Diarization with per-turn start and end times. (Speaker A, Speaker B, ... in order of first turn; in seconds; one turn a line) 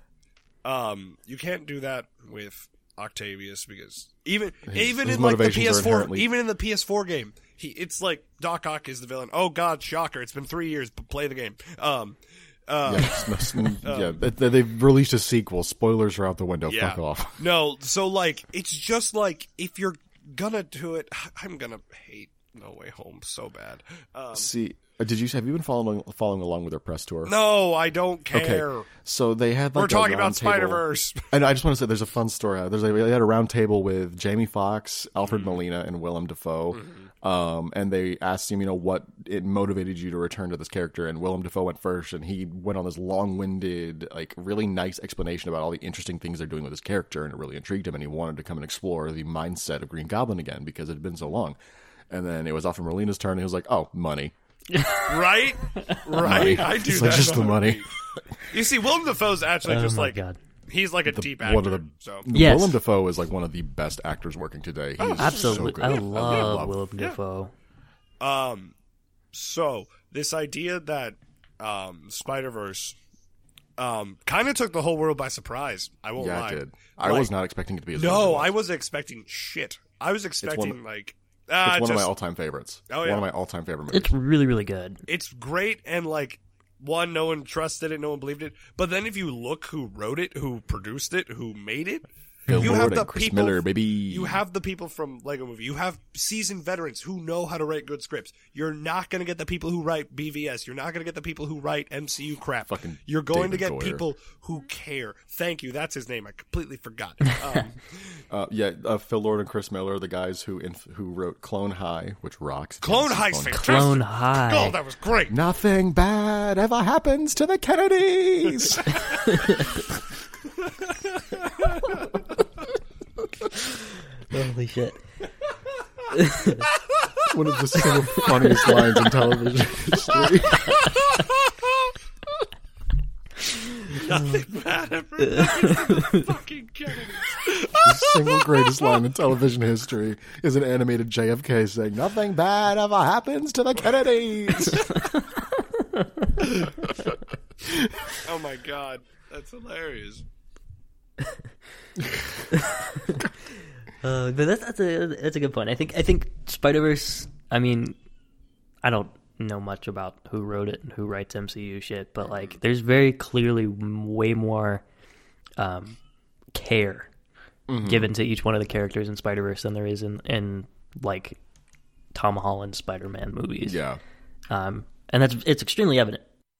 Speaker A: 0.6-14.2
Speaker B: 4.7-6.3
Speaker B: 12.8-17.4
Speaker A: 16.7-24.5
Speaker B: 24.3-27.3
Speaker A: 27.2-28.9
Speaker B: 28.3-51.6
Speaker A: 29.7-31.3
Speaker A: 35.2-35.6
Speaker A: 36.7-37.1
Speaker B: 52.1-54.3
Speaker C: 54.7-56.6
Speaker A: 55.0-57.9
Speaker B: 56.2-57.8
Speaker A: 58.5-62.3
Speaker C: 59.7-60.4
Speaker B: 61.0-66.8
Speaker C: 62.3-62.8
Speaker A: 65.0-67.2
Speaker C: 65.1-67.5
Speaker A: 68.2-68.7
Speaker A: 69.3-73.0
Speaker A: 73.8-77.3
Speaker B: 76.2-78.5
Speaker A: 77.9-82.1
Speaker B: 80.4-80.8
Speaker B: 81.6-84.1
Speaker A: 82.9-83.2
Speaker C: 83.9-85.0
Speaker A: 85.1-107.8
Speaker C: 92.5-92.8
Speaker B: 92.5-94.4
Speaker B: 102.7-104.0
Speaker B: 108.3-113.9
Speaker A: 112.8-115.3
Speaker C: 113.5-114.8
Speaker B: 115.3-119.6
Speaker C: 119.2-119.7
Speaker A: 120.6-122.0
Speaker C: 123.5-125.0
Speaker C: 126.1-126.7
Speaker A: 126.7-127.2
Speaker B: 127.2-130.9
Speaker C: 127.8-129.2
Speaker A: 130.7-131.7
Speaker A: 133.9-138.8
Speaker C: 135.3-136.3
Speaker B: 137.8-145.1
Speaker C: 144.7-146.3
Speaker B: 147.6-147.9
Speaker A: 148.2-150.2
Speaker B: 152.0-152.4
Speaker C: 152.5-153.2
Speaker C: 154.0-158.0
Speaker C: 158.8-164.8
Speaker C: 165.6-166.0
Speaker C: 166.5-167.1
Speaker B: 167.7-168.1
Speaker C: 167.8-171.4
Speaker C: 172.1-173.8
Speaker B: 173.6-174.0
Speaker C: 174.5-176.2